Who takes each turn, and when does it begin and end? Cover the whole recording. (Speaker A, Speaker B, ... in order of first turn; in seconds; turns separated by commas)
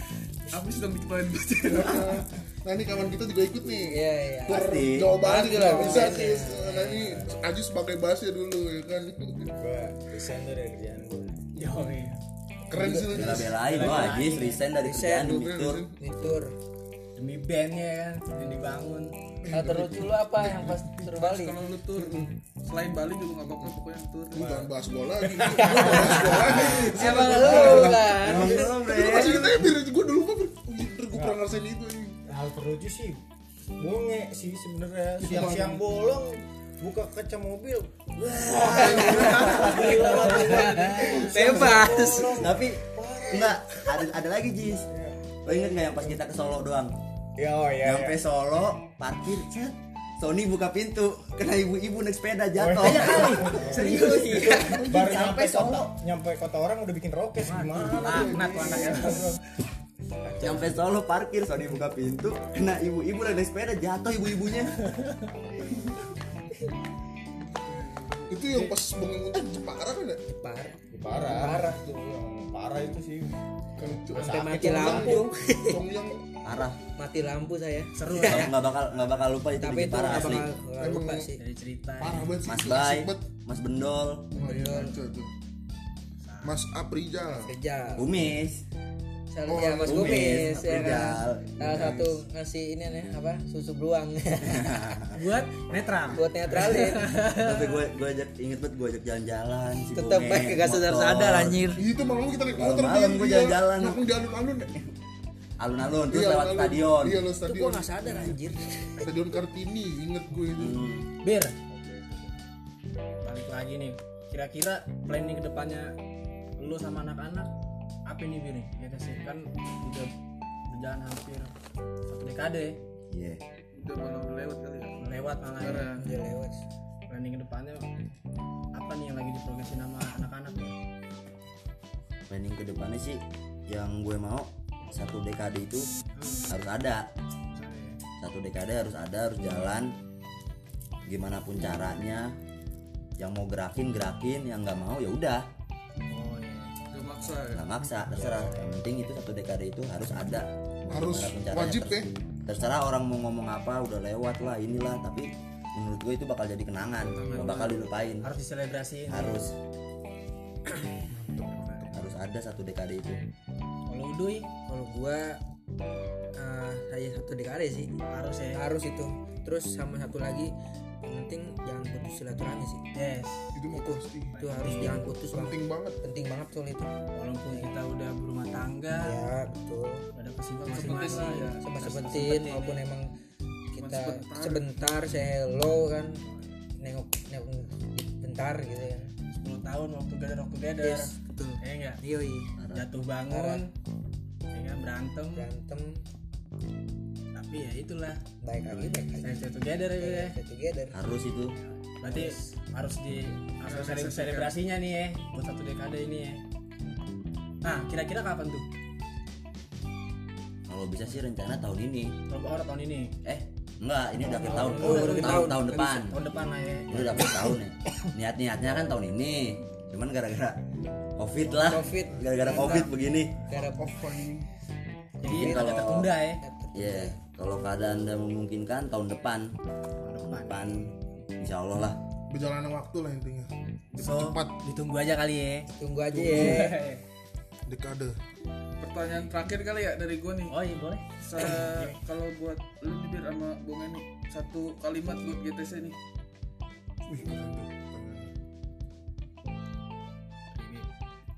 Speaker A: 0.5-2.2, Speaker B: 1.7-9.5, Speaker C: 3.9-7.2, Speaker D: 4.5-5.2, Speaker E: 9.5-11.5, Speaker F: 11.5-12.2, Speaker B: 12.7-14.2, Speaker C: 12.7-13.4, Speaker D: 13.1-15.8, Speaker F: 13.5-14.6, Speaker C: 14.8-15.4, Speaker B: 15.1-16.0, Speaker C: 16.0-16.5, Speaker F: 17.1-19.1, Speaker B: 19.4-20.9, Speaker C: 19.5-21.6, Speaker A: 21.1-24.6, Speaker B: 22.0-22.3, Speaker B: 24.3-32.2, Speaker C: 25.4-28.7, Speaker D: 26.2-29.7, Speaker E: 31.1-31.4, Speaker E: 32.3-33.2, Speaker E: 33.8-43.8, Speaker B: 35.2-35.8, Speaker D: 38.2-40.2, Speaker B: 38.5-39.7, Speaker C: 38.5-42.5, Speaker D: 42.3-44.9, Speaker E: 44.9-45.6, Speaker D: 45.4-47.0, Speaker E: 47.4-48.2, Speaker D: 47.8-55.9, Speaker E: 52.5-59.4, Speaker F: 52.8-54.8, Speaker B: 53.7-55.4, Speaker F: 57.5-59.4, Speaker B: 57.8-59.2, Speaker E: 60.2-60.8, Speaker D: 60.4-64.8, Speaker F: 64.8-65.3, Speaker E: 65.3-65.7, Speaker B: 67.6-70.2, Speaker C: 70.2-71.8, Speaker E: 70.9-75.2, Speaker B: 73.8-76.3, Speaker C: 74.1-75.8, Speaker D: 76.4-76.8, Speaker C: 77.0-78.5, Speaker F: 78.0-78.8, Speaker D: 78.2-80.5, Speaker C: 79.6-81.4, Speaker B: 80.8-81.3, Speaker F: 81.4-82.3, Speaker B: 82.0-83.2, Speaker D: 82.4-84.3, Speaker B: 84.3-85.3, Speaker C: 84.4-85.0, Speaker F: 86.2-86.6, Speaker B: 86.4-87.5, Speaker C: 87.3-88.1, Speaker D: 88.0-88.6, Speaker C: 89.3-94.8, Speaker B: 89.5-90.5, Speaker D: 89.8-92.0, Speaker B: 91.6-92.1, Speaker D: 94.4-95.2, Speaker F: 95.1-97.8, Speaker C: 96.1-97.1, Speaker D: 97.3-101.7, Speaker C: 99.9-101.8, Speaker B: 101.7-104.8, Speaker D: 102.5-104.0, Speaker D: 105.6-107.2, Speaker B: 106.1-108.4, Speaker C: 107.4-109.1, Speaker B: 109.0-110.8, Speaker D: 110.5-111.1, Speaker F: 111.2-111.5, Speaker E: 111.7-112.1, Speaker F: 113.2-115.9, Speaker F: 116.6-117.5, Speaker F: 118.0-120.1, Speaker F: 120.7-121.5, Speaker F: 122.1-122.8, Speaker D: 123.1-123.4, Speaker A: 123.7-126.1, Speaker F: 125.0-125.9, Speaker C: 125.9-126.6, Speaker F: 127.1-127.9, Speaker F: 128.7-130.7, Speaker D: 132.3-135.9, Speaker F: 136.2-136.5, Speaker D: 136.5-137.1, Speaker F: 137.5-138.0, Speaker D: 138.2-139.9, Speaker D: 141.1-142.4, Speaker D: 143.2-145.5, Speaker F: 146.1-147.3, Speaker A: 146.9-147.7, Speaker D: 147.5-158.3, Speaker B: 150.9-152.1, Speaker A: 157.0-157.9, Speaker F: 158.2-159.4, Speaker D: 159.1-159.5, Speaker B: 160.9-162.1, Speaker D: 161.9-163.2, Speaker F: 163.9-164.5, Speaker C: 164.7-165.4, Speaker C: 166.3-167.9, Speaker F: 168.1-168.6, Speaker C: 168.5-172.8, Speaker F: 172.9-173.5, Speaker B: 173.5-176.0, Speaker C: 173.7-176.9, Speaker F: 174.5-175.0, Speaker F: 177.1-179.2, Speaker C: 177.5-177.7, Speaker C: 179.0-180.1, Speaker F: 180.1-182.6, Speaker A: 180.6-182.8, Speaker C: 181.6-183.1, Speaker C: 183.7-186.2, Speaker A: 183.8-184.9, Speaker F: 186.2-186.6, Speaker C: 186.8-189.1, Speaker F: 189.3-192.0, Speaker C: 190.8-192.5, Speaker D: 192.6-192.9, Speaker F: 192.7-193.7, Speaker C: 193.3-193.6, Speaker F: 194.5-195.4, Speaker C: 195.3-196.0, Speaker F: 197.3-198.2, Speaker C: 198.4-199.4, Speaker F: 198.7-200.3, Speaker C: 200.0-201.0, Speaker D: 200.9-201.6, Speaker F: 201.6-206.4, Speaker C: 202.0-202.4, Speaker A: 203.6-204.5, Speaker F: 207.6-208.7, Speaker D: 210.7-212.1, Speaker F: 212.3-213.1, Speaker D: 213.2-220.6, Speaker F: 214.2-217.5, Speaker C: 214.4-216.1, Speaker D: 221.2-223.4, Speaker C: 221.5-222.9, Speaker C: 223.5-224.1, Speaker B: 223.5-224.5, Speaker F: 225.2-226.4, Speaker D: 225.2-226.1, Speaker C: 225.3-225.8, Speaker C: 226.4-227.2, Speaker D: 226.7-229.6, Speaker F: 230.0-231.0, Speaker D: 230.2-232.0, Speaker B: 232.3-234.5, Speaker F: 233.9-237.0, Speaker C: 235.7-236.8, Speaker B: 236.1-236.6, Speaker B: 237.7-238.2, Speaker A: 238.8-240.6, Speaker F: 240.5-242.0, Speaker A: 241.2-246.0, Speaker B: 247.1-248.3, Speaker F: 250.5-250.9